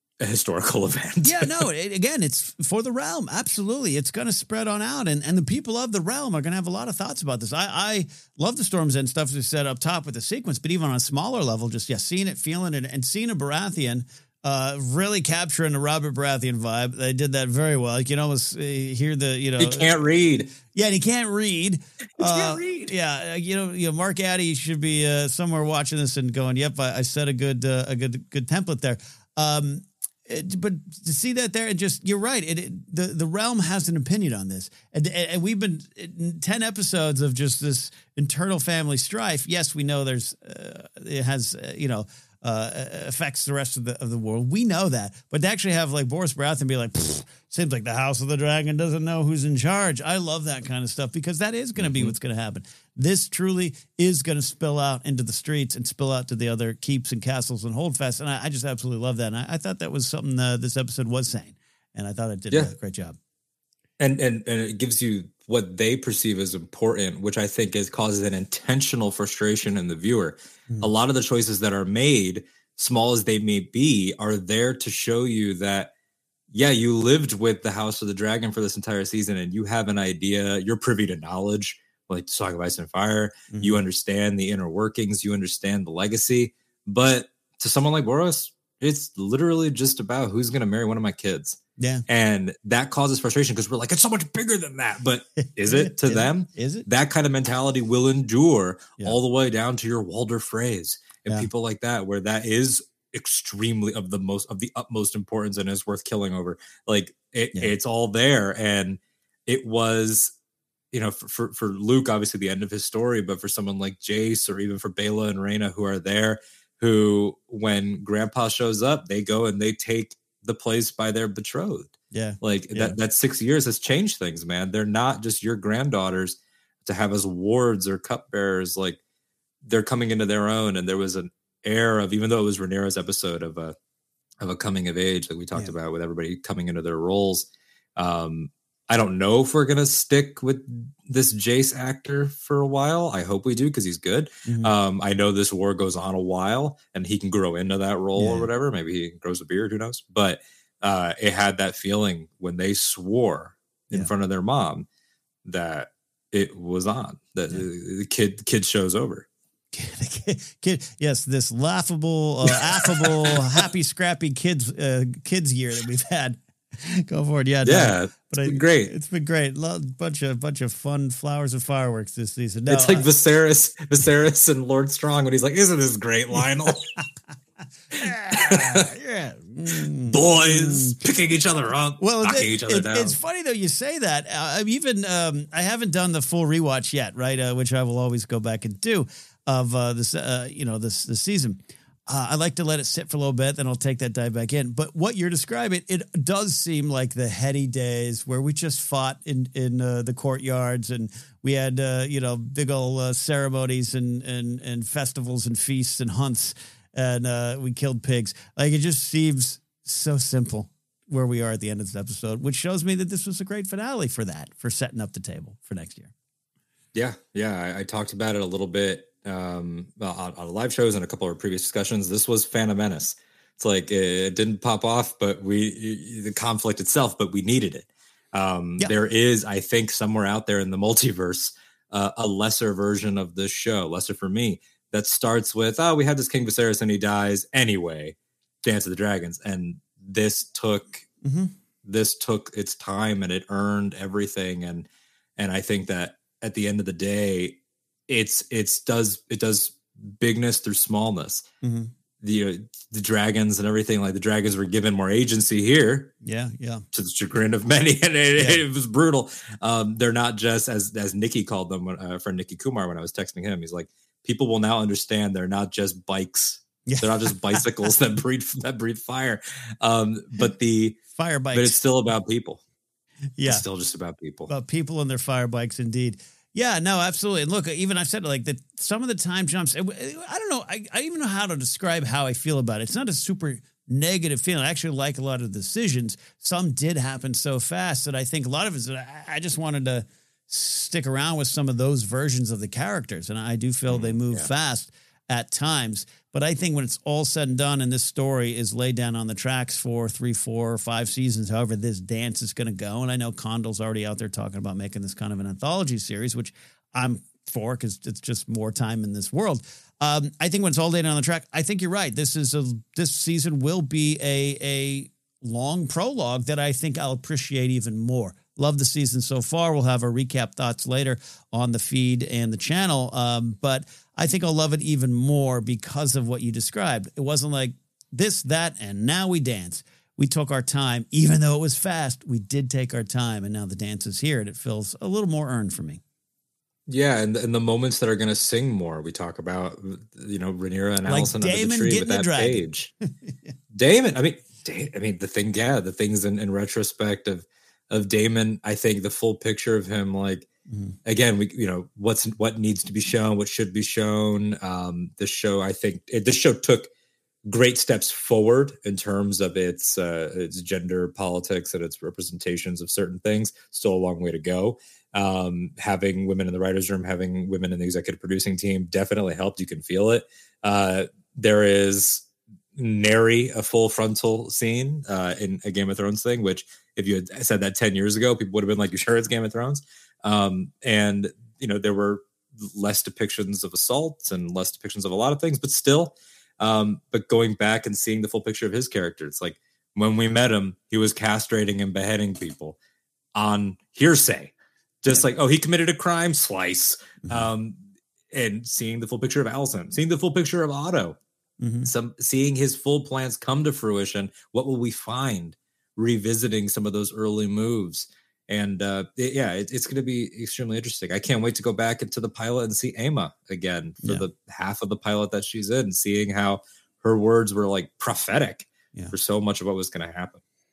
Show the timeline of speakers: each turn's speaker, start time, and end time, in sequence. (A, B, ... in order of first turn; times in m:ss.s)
0:00.2-0:01.6 A
0:01.2-0:19.9 B
0:19.6-0:20.5 A
0:20.7-1:03.2 B
0:22.2-0:22.9 A
0:51.8-0:52.1 A
1:04.0-1:15.9 A
1:16.5-1:50.3 A
1:23.5-1:23.8 B
1:31.8-1:32.0 B
1:35.4-1:36.8 B
1:50.9-2:09.0 A
2:02.1-2:03.0 B
2:09.6-2:13.7 A
2:14.4-2:34.8 A
2:24.4-2:24.7 B
2:28.2-2:28.5 B
2:35.4-2:39.2 A
2:39.7-2:53.1 B
2:42.7-2:43.6 A
2:47.6-2:48.9 A
2:52.6-2:56.9 A
2:57.9-3:01.0 B
2:58.3-2:58.9 A
3:00.1-3:03.2 A
3:02.0-3:36.1 B
3:36.9-4:01.1 A
4:01.2-4:01.5 B
4:01.8-4:11.4 A
4:11.6-4:11.9 B
4:12.2-4:16.1 A
4:16.2-4:16.8 B
4:16.9-4:31.0 A
4:18.4-4:18.6 B
4:26.8-4:27.6 B
4:31.2-4:31.8 B
4:31.5-4:32.6 A
4:33.4-4:33.6 B
4:33.4-4:34.5 A
4:34.5-5:36.0 B
4:53.9-4:54.5 A
5:36.9-5:42.9 A
5:41.0-5:42.7 B
5:43.2-5:43.5 B
5:43.7-5:50.5 A
5:50.7-5:51.0 B
5:51.0-5:56.9 A
5:57.4-6:32.8 A
6:33.3-6:41.2 A
6:37.2-6:37.5 B
6:41.6-6:41.9 B
6:41.8-7:00.4 A